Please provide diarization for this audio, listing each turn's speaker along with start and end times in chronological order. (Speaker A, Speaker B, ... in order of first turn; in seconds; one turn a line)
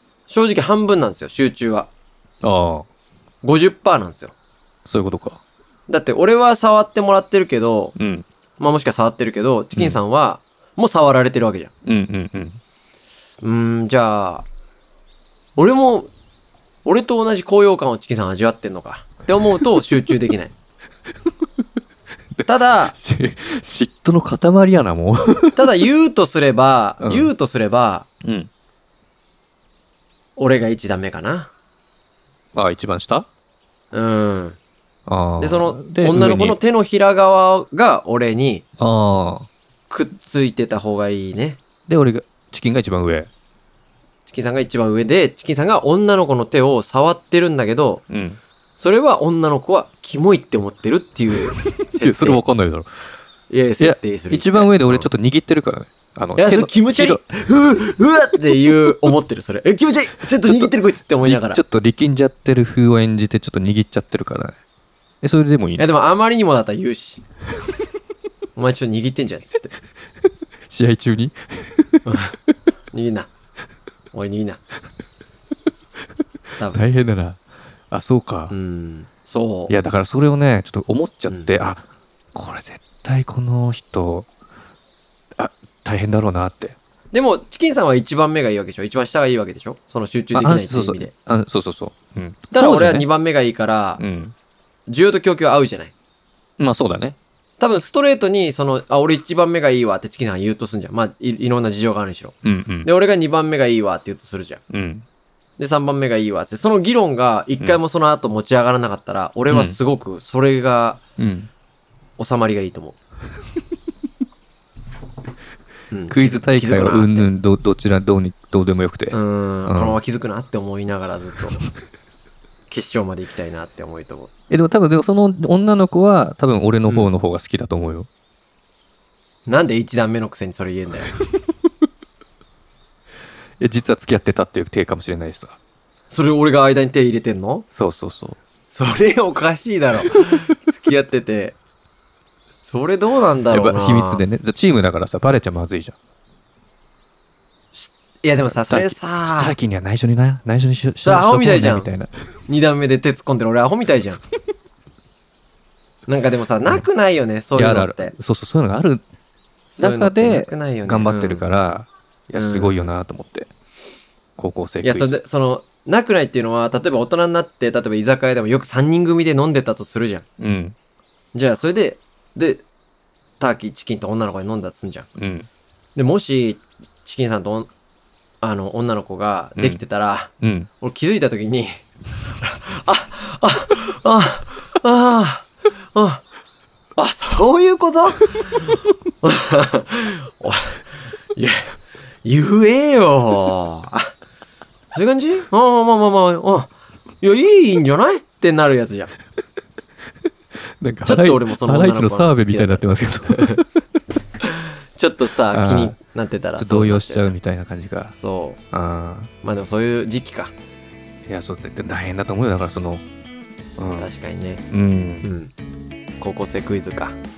Speaker A: 0.3-1.9
Speaker B: 2.4-2.9
Speaker A: 3.4-4.3
Speaker B: 4.8-5.4
Speaker A: 5.9-8.0
Speaker B: 8.0-8.2
Speaker A: 8.6-11.7
Speaker B: 11.8-12.6
Speaker A: 13.4-14.4
Speaker A: 15.6-16.1
Speaker A: 16.8-20.5
Speaker B: 22.4-25.6
Speaker A: 22.4-22.9
Speaker A: 25.6-28.1
Speaker B: 27.0-27.3
Speaker B: 28.2-28.5
Speaker A: 30.4-31.5
Speaker B: 32.5-33.3
Speaker A: 33.9-34.6
Speaker B: 35.1-36.6
Speaker A: 35.4-38.6
Speaker B: 38.8-39.5
Speaker A: 39.9-41.6
Speaker B: 41.9-43.3
Speaker A: 44.3-48.0
Speaker B: 48.1-48.4
Speaker A: 48.8-52.4
Speaker B: 51.8-52.9
Speaker A: 53.5-55.1
Speaker B: 53.8-57.2
Speaker A: 56.4-61.6
Speaker B: 60.4-60.7
Speaker B: 61.2-64.6
Speaker B: 65.2-65.8
Speaker A: 65.8-67.2
Speaker A: 68.5-69.7
Speaker B: 70.7-72.0
Speaker A: 72.0-72.3
Speaker A: 72.9-73.3
Speaker A: 74.1-74.6
Speaker B: 76.7-77.4
Speaker B: 77.9-78.5
Speaker A: 78.5-79.7
Speaker B: 79.7-84.3
Speaker B: 85.4-86.8
Speaker A: 87.1-91.1
Speaker B: 90.3-93.1
Speaker A: 92.5-94.0
Speaker B: 94.0-94.3
Speaker A: 94.9-95.9
Speaker B: 96.6-97.2
Speaker A: 97.6-104.6
Speaker B: 102.4-102.9
Speaker B: 104.7-105.0
Speaker A: 105.6-111.0
Speaker B: 109.5-109.8
Speaker B: 111.2-111.5
Speaker A: 112.2-113.0
Speaker A: 115.9-117.3
Speaker B: 116.1-120.0
Speaker A: 119.1-121.6
Speaker A: 122.7-124.3
Speaker B: 124.5-128.1
Speaker A: 129.5-131.1
Speaker B: 133.6-135.6
Speaker A: 136.1-137.7
Speaker B: 137.7-138.4
Speaker A: 138.7-141.6
Speaker A: 142.6-144.2
Speaker B: 143.5-145.9
Speaker A: 147.7-149.6
Speaker B: 148.5-152.1
Speaker A: 151.0-151.9
Speaker A: 152.5-154.2
Speaker A: 156.1-158.1
Speaker B: 157.6-159.0
Speaker A: 159.7-161.4
Speaker B: 159.8-163.5
Speaker A: 162.3-162.8
Speaker B: 164.4-165.1
Speaker A: 164.8-170.2
Speaker B: 170.4-170.7
Speaker A: 171.3-172.6
Speaker A: 173.4-175.1
Speaker B: 175.2-175.5
Speaker A: 175.9-177.7
Speaker A: 178.4-181.7
Speaker B: 180.4-180.7
Speaker A: 182.4-186.2
Speaker A: 187.0-190.8
Speaker A: 191.3-191.6
Speaker A: 192.2-194.1
Speaker A: 194.9-199.1
Speaker B: 200.8-203.7
Speaker A: 201.0-203.6
Speaker A: 204.9-207.3
Speaker B: 205.5-205.9
Speaker B: 206.6-208.1
Speaker A: 208.1-208.6
Speaker B: 208.7-209.3
Speaker A: 209.4-210.5
Speaker B: 211.3-213.0
Speaker B: 213.8-214.1
Speaker A: 214.0-214.6
Speaker B: 214.7-215.3
Speaker A: 215.2-215.5
Speaker A: 216.2-217.2